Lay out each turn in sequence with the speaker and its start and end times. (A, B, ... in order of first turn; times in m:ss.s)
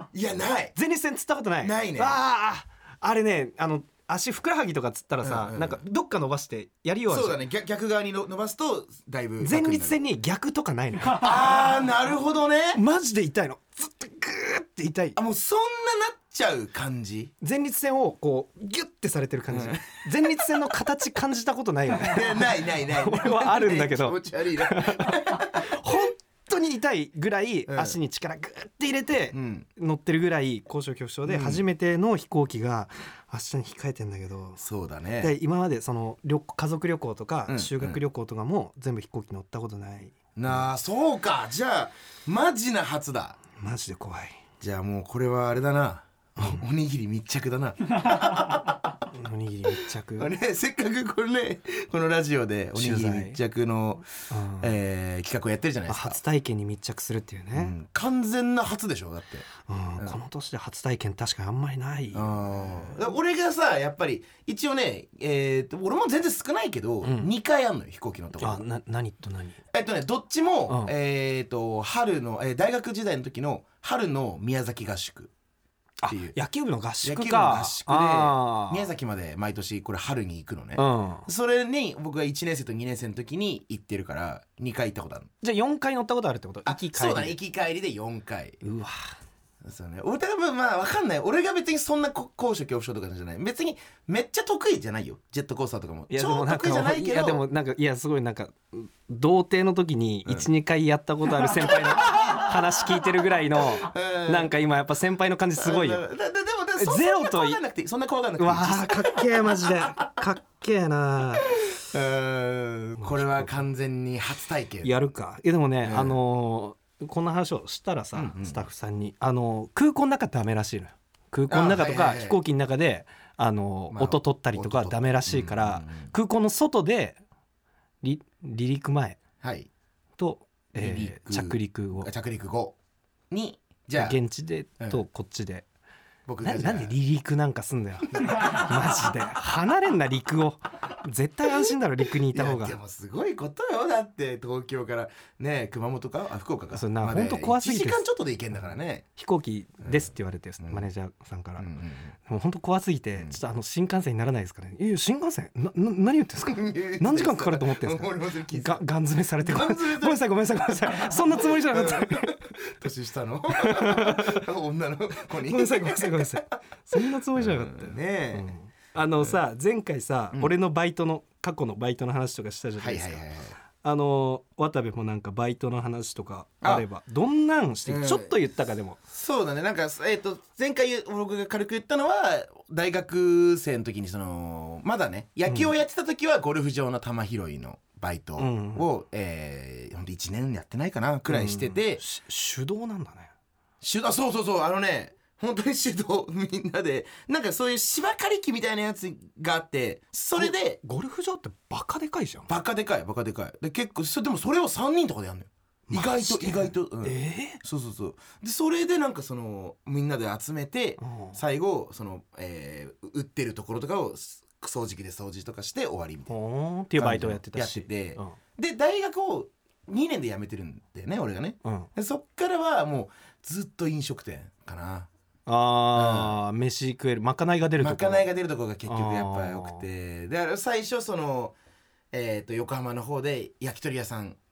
0:00.1-0:00.7 A
0:00.7-0:07.4 B
0:01.6-0:02.2 A
0:05.2-0:05.8 A
0:07.1-0:10.0 A
0:09.4-0:11.3 B
0:11.1-0:12.8 A
0:12.7-0:15.2 B
0:15.2-0:17.3 A
0:17.4-0:34.6 B
0:19.5-0:20.3 A
0:22.0-0:26.0 A
0:27.7-0:28.0 A
0:29.3-0:29.7 A
0:31.2-0:31.6 A
0:34.6-0:35.3 A
0:35.2-0:40.6 B
0:37.5-0:38.0 A
0:40.4-0:43.4 A
0:43.6-0:44.4 B
0:44.6-0:49.0 A
0:49.1-0:50.3 B
0:50.2-0:54.0 A
0:52.7-0:53.4 B
0:54.3-0:54.7 B
0:54.6-0:56.2 A
0:55.9-0:57.7 B
0:57.5-0:59.5 A
0:59.7-1:02.9 B
1:02.1-1:08.6 A
1:07.0-1:07.3 B
1:08.4-1:09.6 B
1:09.7-1:15.3 A
1:16.0-1:18.9 B
1:16.1-1:16.4 A
1:17.0-1:25.3 A
1:20.8-1:21.3 B
1:25.4-1:27.4 B
1:26.6-1:28.6 A
1:28.6-1:29.1 B
1:29.6-1:37.4 A
1:36.1-1:46.0 B
1:41.4-1:42.6 A
1:43.8-1:44.5 A
1:45.6-1:50.1 A
1:46.8-1:47.6 B
1:48.4-1:51.5 B
1:51.5-1:55.0 A
1:53.0-1:53.5 B
1:54.8-2:07.2 B
1:55.8-1:56.2 A
1:58.1-1:58.7 A
2:01.5-2:02.4 A
2:03.9-2:06.1 A
2:08.0-2:09.2 B
2:09.4-2:09.7 A
2:10.2-2:12.1 B
2:10.7-2:12.8 A
2:13.3-2:14.2 A
2:14.0-2:15.6 B
2:16.2-2:16.9 A
2:16.4-2:22.8 B
2:18.2-2:18.6 A
2:22.3-2:29.0 A
2:26.7-2:28.0 B
2:29.2-2:31.7 B
2:30.6-2:30.9 A
2:31.6-2:32.1 A
2:32.2-2:42.3 B
2:36.5-2:38.8 A
2:39.4-2:40.2 A
2:40.8-2:48.5 A
2:43.5-2:44.4 B
2:45.4-2:53.2 B
2:52.8-2:53.6 A
2:53.8-2:59.0 B
2:57.9-2:58.3 A
2:59.1-3:12.0 A
3:08.4-3:08.8 B
3:11.3-3:13.3 B
3:13.8-3:20.8 A
3:20.4-3:22.5 B
3:22.5-3:36.3 A
3:25.9-3:27.6 B
3:31.0-3:31.4 B
3:36.3-3:38.4 B
3:37.0-3:45.1 A
3:45.5-3:48.3 B
3:45.9-3:46.4 A
3:47.8-3:51.6 A
3:48.8-3:49.8 B
3:52.1-3:54.4 A